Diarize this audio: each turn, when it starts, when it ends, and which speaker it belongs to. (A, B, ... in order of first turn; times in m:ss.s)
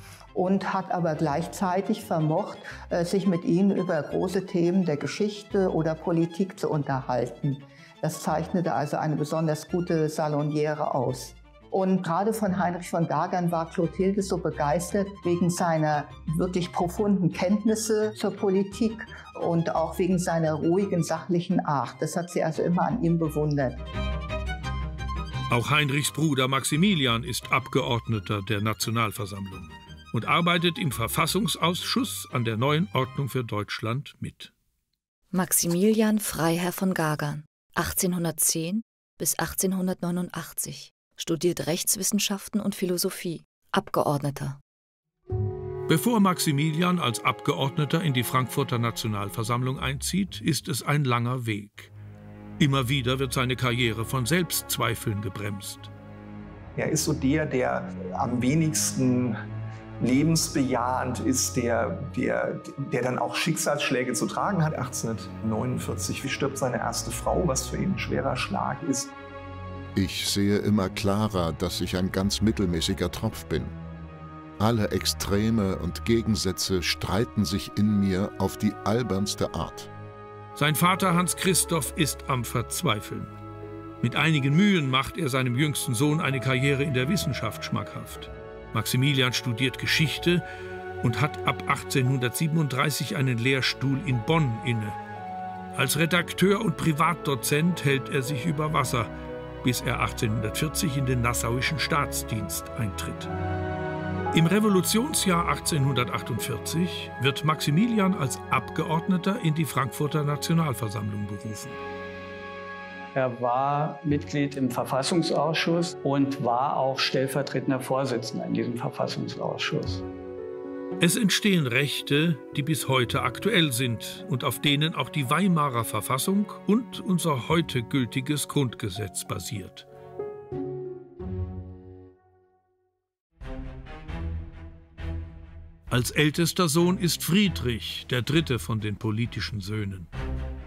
0:00.3-0:23.8 A
0:25.5-0:34.5 B
0:35.3-0:44.6 C
0:45.9-0:51.9 B
0:52.6-0:55.9 B
0:56.8-0:59.3 D
1:00.0-1:09.1 D
1:09.9-1:13.7 E
1:14.6-1:19.9 E
1:20.5-1:23.3 B
1:24.0-1:30.4 B
1:31.0-1:35.0 B
1:35.7-1:39.1 B
1:39.6-1:43.3 B
1:44.3-1:51.8 B
1:53.1-2:00.0 F
2:01.0-2:09.8 B
2:15.9-2:20.1 B